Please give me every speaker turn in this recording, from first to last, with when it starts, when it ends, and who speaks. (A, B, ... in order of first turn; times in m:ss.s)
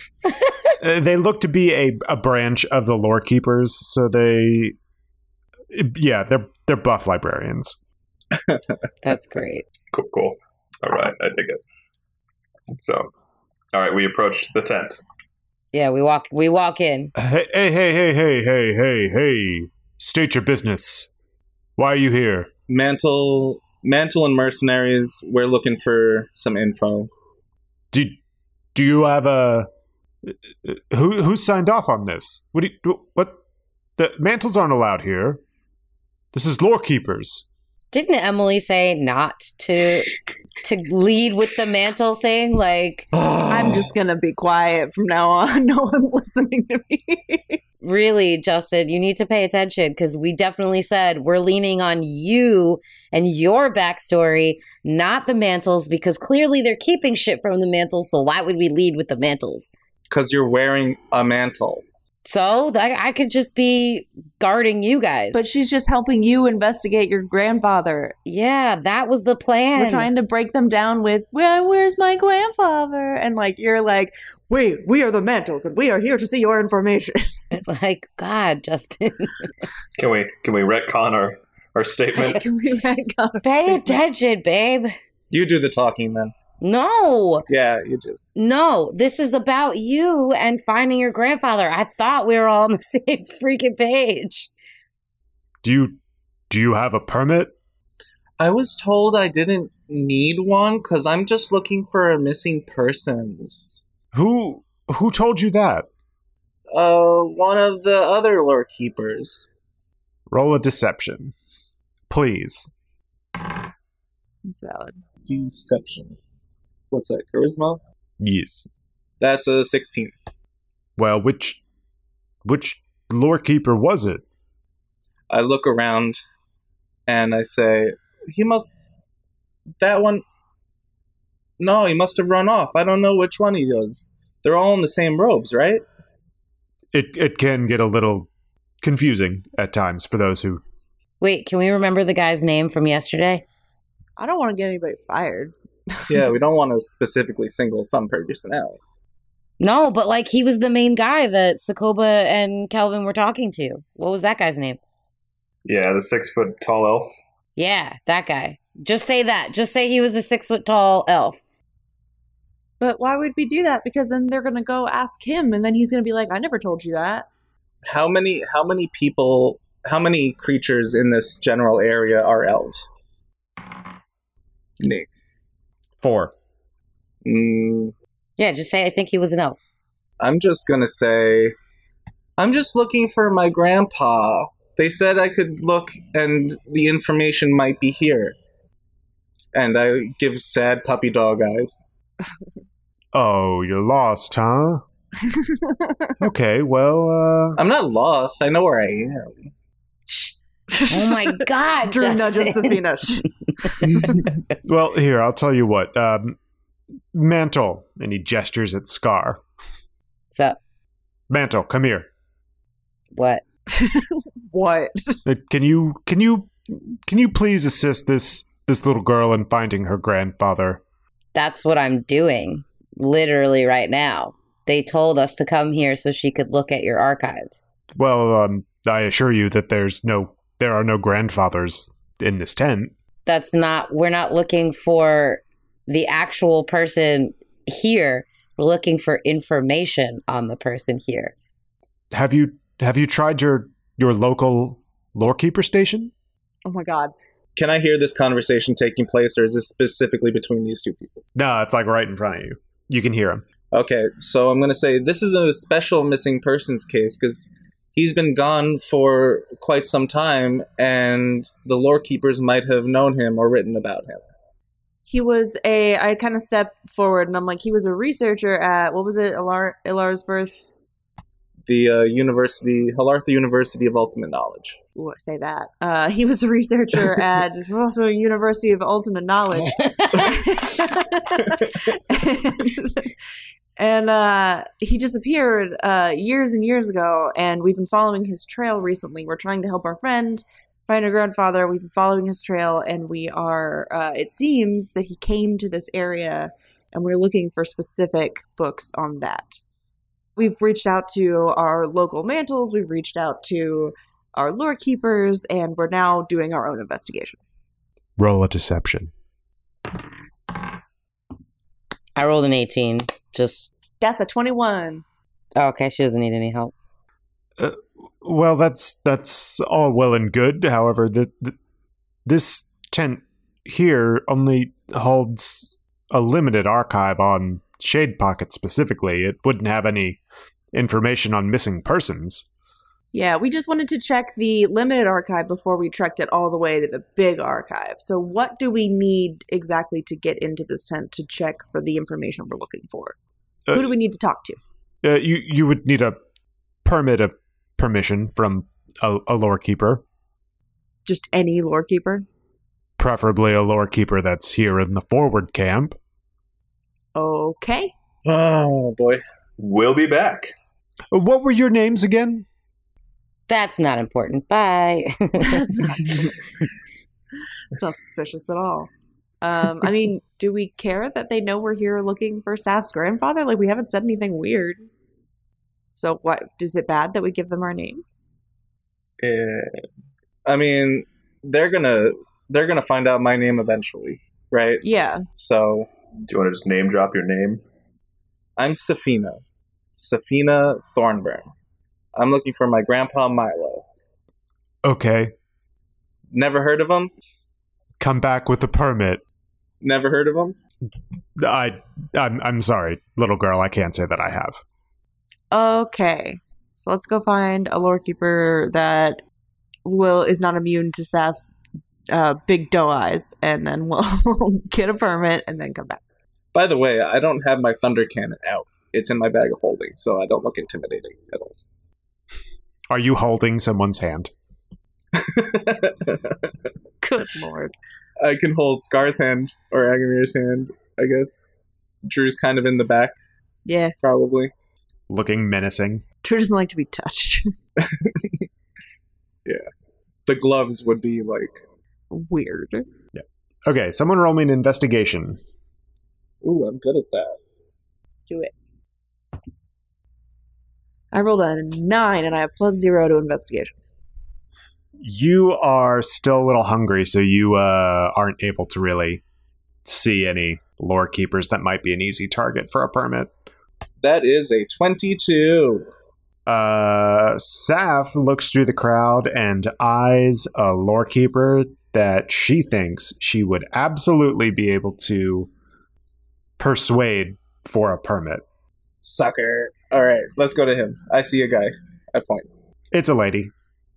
0:00.8-0:04.8 A
0:05.7-0:07.8 A
0:09.0-0:09.6 B
0:09.9-0:11.6 C
0:12.7-0:13.1 C
0:13.7-0:15.0 C
0:15.7-0:17.1 B
0:17.2-0:21.1 A
0:21.8-0:22.5 A
0:22.7-0:27.1 D
0:27.9-0:28.2 A
0:28.7-0:29.7 A
0:30.3-0:33.4 A
0:34.0-0:35.4 A
0:36.3-0:37.5 A
0:37.9-0:43.1 B
0:43.5-0:47.6 E
0:47.8-0:59.7 B
1:00.1-1:01.8 D
1:02.2-1:05.5 B
1:05.3-1:08.2 E
1:08.3-1:10.1 B
1:09.8-1:17.3 E
1:17.5-1:19.5 B
1:20.0-1:22.4 C
1:22.2-1:23.9 E
1:23.4-1:24.9 B
1:25.3-1:26.3 D
1:26.6-1:27.5 B
1:27.5-1:28.2 D
1:28.4-1:34.5 B
1:35.6-1:36.0 A
1:36.5-1:37.5 A
1:38.4-1:43.9 D
1:44.1-1:45.9 A
1:46.7-1:49.5 D
1:50.3-1:51.3 A
1:52.1-1:52.7 A
1:54.4-1:55.0 E
1:55.2-1:56.2 D
1:56.9-1:57.8 D
1:58.2-1:58.7 A
1:59.2-2:00.2 D
2:01.0-2:01.6 A
2:02.4-2:04.2 A
2:05.3-2:06.2 D
2:07.1-2:08.8 D
2:09.8-2:10.2 D
2:11.6-2:15.8 D
2:16.9-2:18.3 A
2:18.8-2:20.6 A
2:21.2-2:23.4 B
2:24.2-2:26.2 E
2:26.1-2:28.8 D
2:29.6-2:34.8 B
2:35.6-2:37.1 C
2:37.6-2:41.4 B
2:42.8-2:47.3 E
2:47.8-2:52.9 D
2:54.8-2:55.1 D
2:56.0-2:56.3 A
2:57.2-2:57.9 D
2:58.4-2:59.6 B
3:00.2-3:01.6 D
3:02.4-3:08.4 D
3:09.5-3:11.8 D
3:13.1-3:14.8 A
3:15.3-3:16.2 E
3:16.2-3:17.6 A
3:17.6-3:19.5 D
3:20.1-3:24.2 E
3:20.9-3:22.8 B
3:24.6-3:26.4 A
3:27.1-3:29.4 A
3:30.3-3:30.6 B
3:31.3-3:32.1 A
3:33.1-3:33.4 B
3:33.7-3:35.2 E
3:35.3-3:40.8 A
3:41.4-3:47.7 B
3:48.0-3:52.9 A
3:53.3-4:01.3 B
4:02.1-4:06.1 A
4:06.6-4:07.1 E
4:07.6-4:11.2 D
4:11.4-4:13.4 A
4:13.7-4:24.2 D
4:25.1-4:30.7 E
4:31.7-4:34.8 D
4:35.0-4:43.2 E
4:39.8-4:40.3 B
4:43.8-4:59.6 E
5:00.4-5:07.4 E
5:08.2-5:09.1 A
5:12.2-5:13.7 B
5:14.0-5:15.0 E
5:15.6-5:16.7 B
5:17.6-5:21.6 A
5:22.3-5:30.2 A
5:30.7-5:32.5 A
5:33.1-5:43.2 E
5:43.7-5:44.6 E
5:45.0-5:46.2 A
5:46.8-5:50.0 A
5:51.1-5:52.3 E
5:53.0-5:56.0 A
5:57.2-5:57.9 E
5:58.2-5:59.2 D
5:59.6-6:00.5 C
6:01.1-6:02.5 A
6:03.5-6:06.0 B
6:05.4-6:06.3 E
6:07.7-6:08.9 E
6:09.4-6:14.9 E
6:16.0-6:18.3 E
6:19.2-6:19.8 C
6:20.4-6:24.8 D
6:24.8-6:25.3 E
6:25.3-6:25.9 D
6:26.3-6:27.6 C
6:28.6-6:29.4 D
6:29.9-6:31.5 D
6:32.2-6:33.9 D
6:34.8-6:35.3 A
6:36.3-6:37.1 D
6:38.0-6:39.2 A
6:39.8-6:40.6 D
6:41.4-6:44.6 A
6:45.5-6:49.2 E
6:49.8-6:51.6 E
6:52.1-6:56.0 E
6:56.5-7:01.6 D
7:02.9-7:04.3 A
7:05.1-7:06.5 D
7:07.0-7:07.7 E
7:08.2-7:11.5 D
7:12.0-7:13.2 D
7:13.7-7:14.0 E
7:14.0-7:14.5 D
7:15.1-7:16.0 A
7:16.2-7:17.5 E
7:17.8-7:18.5 D
7:20.3-7:21.6 D
7:22.1-7:22.9 E
7:23.1-7:25.4 A
7:26.4-7:27.4 D
7:31.1-7:33.8 E
7:35.0-7:39.2 A
7:39.8-7:43.3 A
7:44.0-7:45.9 D
7:46.5-7:55.5 A
7:56.6-7:58.4 A
7:59.0-8:02.5 D
8:02.9-8:03.5 A